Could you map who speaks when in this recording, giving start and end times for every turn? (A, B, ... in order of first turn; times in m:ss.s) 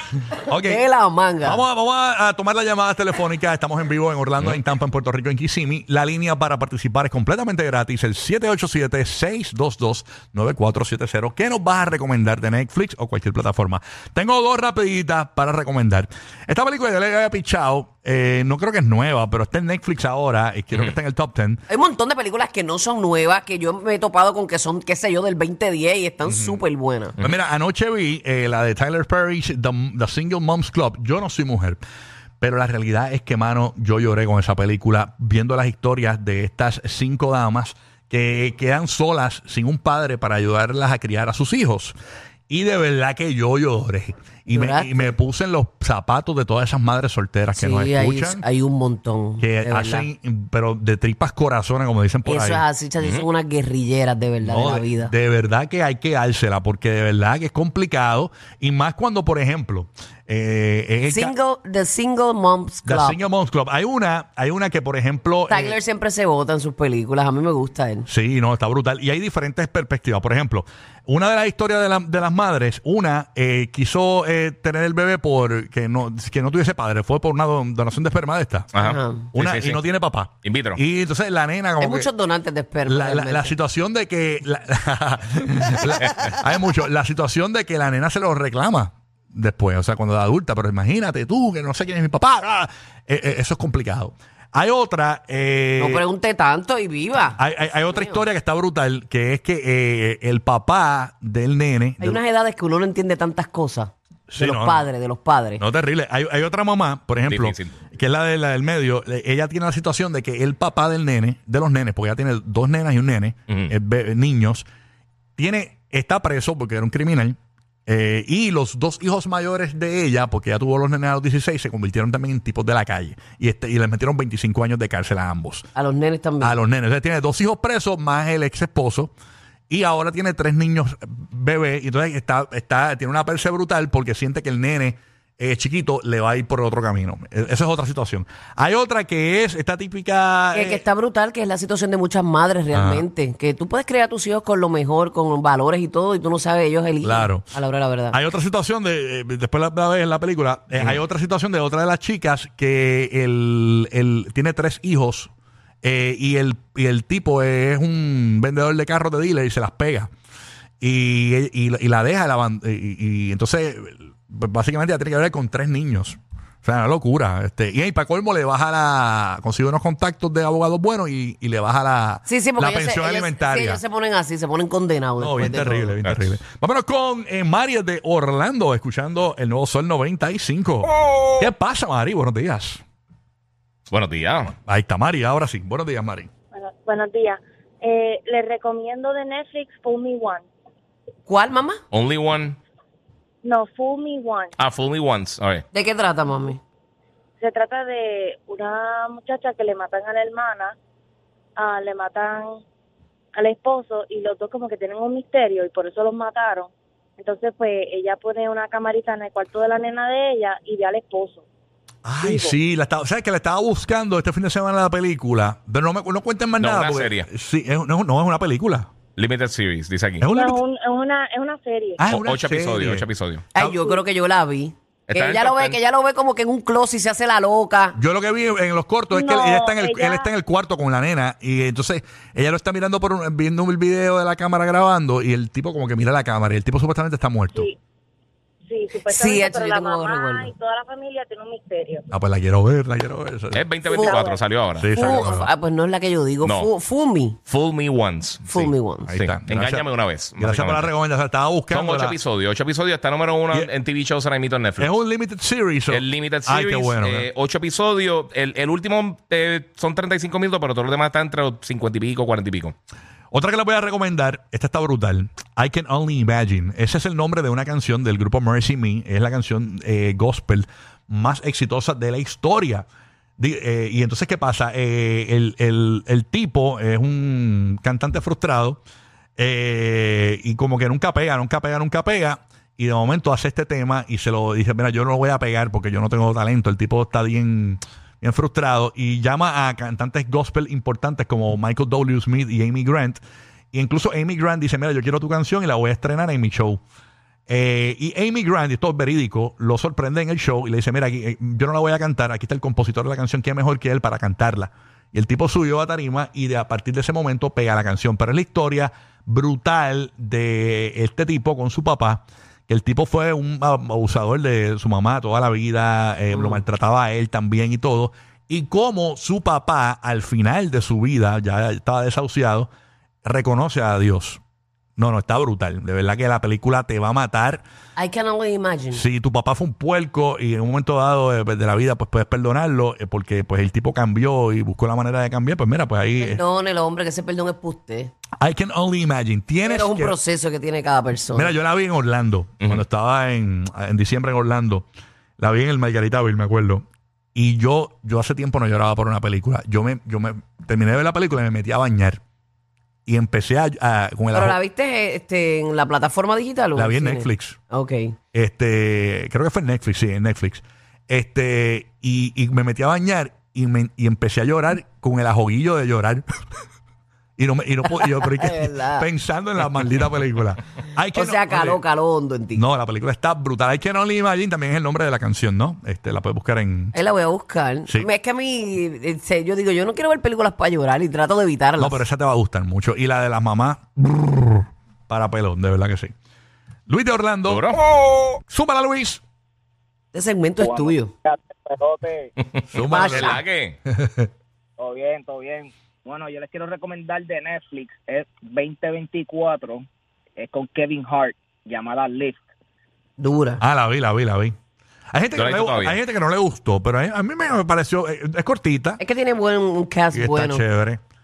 0:00.3-0:00.8 A
0:00.6-0:01.6 B
0:01.4-0:21.6 A
0:21.7-0:27.2 B
0:26.2-0:26.6 A
0:27.2-0:31.8 A
0:32.4-0:42.0 A
0:42.5-0:48.4 A
0:44.5-0:45.1 B
0:47.5-0:50.1 B
0:49.4-0:52.6 A
0:52.2-0:55.1 B
0:53.0-0:53.3 C
0:54.4-1:01.4 A
1:01.1-1:03.2 B
1:02.8-1:05.8 A
1:05.5-1:08.1 B
1:08.1-1:18.7 A
1:18.7-1:19.8 C
1:18.8-1:19.3 B
1:19.3-1:22.1 A
1:20.4-1:20.8 C
1:21.8-1:23.6 B
1:22.8-1:36.0 A
1:35.8-1:38.2 B
1:37.4-1:42.2 A
1:42.0-1:45.6 B
1:44.3-1:44.9 A
1:45.6-1:54.6 A
1:47.3-1:47.7 C
1:55.4-2:05.7 A
2:05.8-2:06.6 B
2:06.4-2:09.1 A
2:09.7-2:20.8 A
2:20.5-2:28.2 B
2:22.7-2:23.1 A
2:27.0-2:27.5 A
2:28.1-2:35.3 A
2:35.8-2:40.1 A
2:40.8-2:53.8 A
2:52.3-2:56.0 B
2:55.2-3:02.8 A
2:56.0-2:56.4 C
3:03.9-3:04.5 C
3:04.6-3:06.3 A
3:06.5-3:10.4 D
3:11.3-3:11.8 B
3:11.9-3:12.6 C
3:13.4-3:14.6 D
3:14.6-3:15.6 C
3:15.7-3:16.6 B
3:17.4-3:20.8 D
3:21.6-3:22.6 D
3:23.4-3:31.4 D
3:32.0-3:38.9 A
3:32.2-3:32.6 D
3:36.6-3:37.3 C
3:39.2-3:40.3 C
3:40.2-3:40.6 A
3:40.3-3:42.0 D
3:42.0-3:43.8 A
3:42.1-3:43.4 C
3:43.6-3:48.0 B
3:45.1-3:45.8 C
3:48.0-3:57.7 A
3:49.1-3:50.3 D
3:58.7-4:02.0 D
3:59.1-4:00.5 B
4:02.1-4:03.6 A
4:03.5-4:05.3 C
4:03.9-4:04.4 D
4:03.9-4:04.2 B
4:04.8-4:05.5 A
4:05.0-4:07.4 B
4:06.4-4:06.7 C
4:07.5-4:10.9 C
4:08.5-4:09.2 B
4:09.1-4:12.2 A
4:11.7-4:14.9 C
4:14.8-4:17.3 A
4:15.9-4:22.8 C
4:23.3-4:32.9 A
4:33.4-4:38.8 A
4:39.4-4:53.2 A
4:53.7-4:56.8 A
4:57.5-5:22.7 A
5:16.3-5:16.6 B
5:23.2-5:24.4 A
5:25.0-5:27.6 A
5:28.0-5:29.0 B
5:28.9-5:36.4 A
5:36.2-5:38.1 B
5:38.4-5:40.2 A
5:39.6-5:41.5 B
5:41.3-5:44.9 A
5:45.4-5:52.2 A
5:53.1-5:54.6 A
5:54.3-5:58.2 B
5:56.8-5:57.6 A
5:58.3-6:06.3 A
6:07.4-6:11.8 A
6:07.9-6:09.1 B
6:11.1-6:12.6 B
6:12.6-6:17.0 A
6:16.9-6:22.0 B
6:21.8-6:26.1 A
6:26.9-6:27.6 A
6:27.5-6:27.8 C
6:28.5-6:29.2 A
6:30.1-6:31.1 B
6:30.6-6:32.3 E
6:32.6-6:33.8 C
6:32.7-6:34.3 A
6:32.9-6:33.4 B
6:34.8-6:39.8 E
6:40.4-6:42.4 E
6:43.2-6:43.6 B
6:43.6-6:44.6 A
6:45.1-6:49.0 A
6:45.4-6:46.0 C
6:49.0-6:50.6 B
6:50.1-6:51.0 A